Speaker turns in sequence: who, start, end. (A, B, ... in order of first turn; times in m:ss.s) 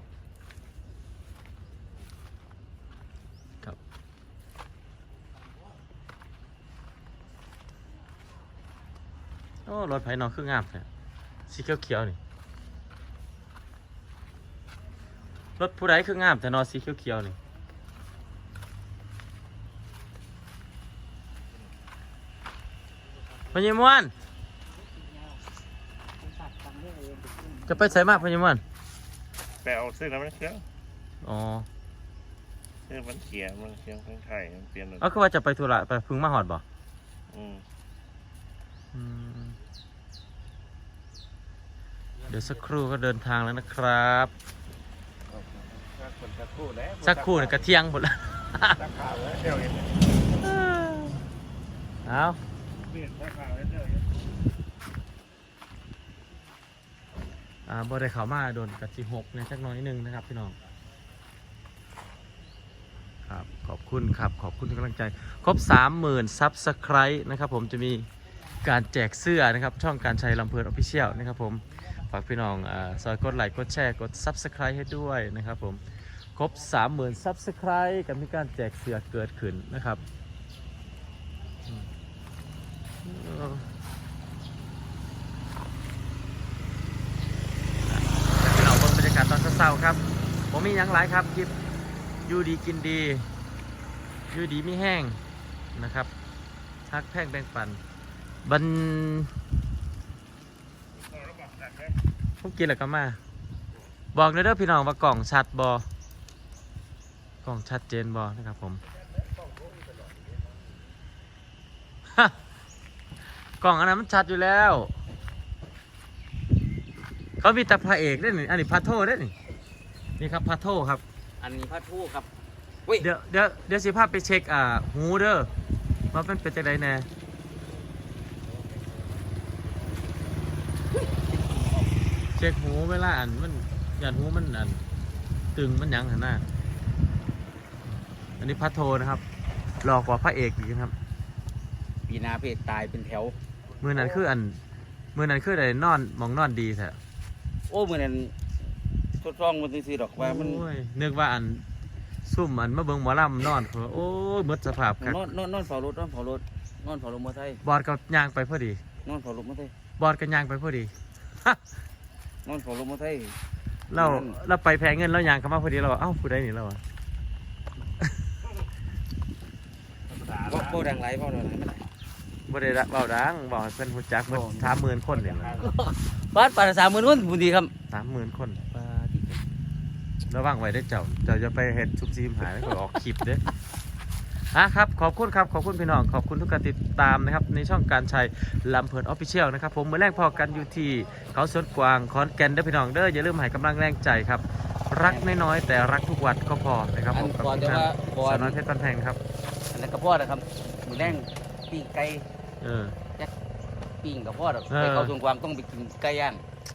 0:09.6-0:10.9 A
0:11.5-0:12.2 A
0:15.6-0:17.4 A
0:23.5-0:24.1 A
0:25.0-0:25.4 B
0:26.2-0:28.2 B
0:27.7-0:28.6 A
0:29.6-0:30.6 C
0:31.2-0:31.7 A
0:32.9-0:35.0 C
0:35.0-0:36.6 A
0:37.3-0:37.6 C
0:38.9-0:39.6 A
0:42.3-0:44.3 A
0:45.3-0:47.6 C
0:47.0-0:48.8 A
0:48.8-0:50.1 C
0:50.4-0:51.2 A
0:52.0-0:52.4 A
0:52.9-0:54.0 C
0:57.6-1:00.5 A
1:03.2-1:08.1 A
1:08.6-1:15.8 A
1:16.4-1:20.0 A
1:23.0-1:23.7 A
1:27.9-1:31.5 A
1:32.3-1:33.2 A
1:34.3-1:35.2 A
1:35.7-1:36.1 A
1:36.9-1:37.8 A
1:38.4-1:39.3 A
1:41.1-1:41.9 C
1:42.4-1:43.2 A
1:44.1-1:45.8 A
1:47.4-1:48.8 A
1:53.6-1:54.9 A
1:57.4-1:59.3 A
2:00.2-2:01.0 A
2:01.4-2:02.3 B
2:03.0-2:05.5 A
2:06.1-2:07.1 A
2:11.5-2:11.9 B
2:12.4-2:14.8 A
2:15.6-2:16.4 A
2:18.4-2:19.2 A
2:19.8-2:20.9 A
2:22.1-2:24.2 B
2:23.8-2:24.6 A
2:25.1-2:27.0 A
2:27.7-2:28.3 B
2:29.2-2:30.6 B
2:30.2-2:31.6 A
2:32.2-2:35.2 A
2:35.0-2:37.6 B
2:37.6-2:38.8 A
2:39.0-2:39.7 B
2:40.0-2:41.6 A
2:42.4-2:43.4 B
2:43.9-2:46.8 A
2:43.9-2:44.4 B
2:50.1-2:50.8 C
2:50.4-2:51.9 B
2:52.5-2:55.6 A
2:54.3-2:57.7 B
2:57.9-2:58.6 A
2:58.7-2:59.4 B
3:00.3-3:03.4 A
3:04.5-3:19.2 A
3:15.0-3:15.4 B
3:17.1-3:18.6 B
3:19.7-3:22.3 B
3:22.6-3:23.0 A
3:24.0-3:26.4 B
3:24.7-3:25.1 A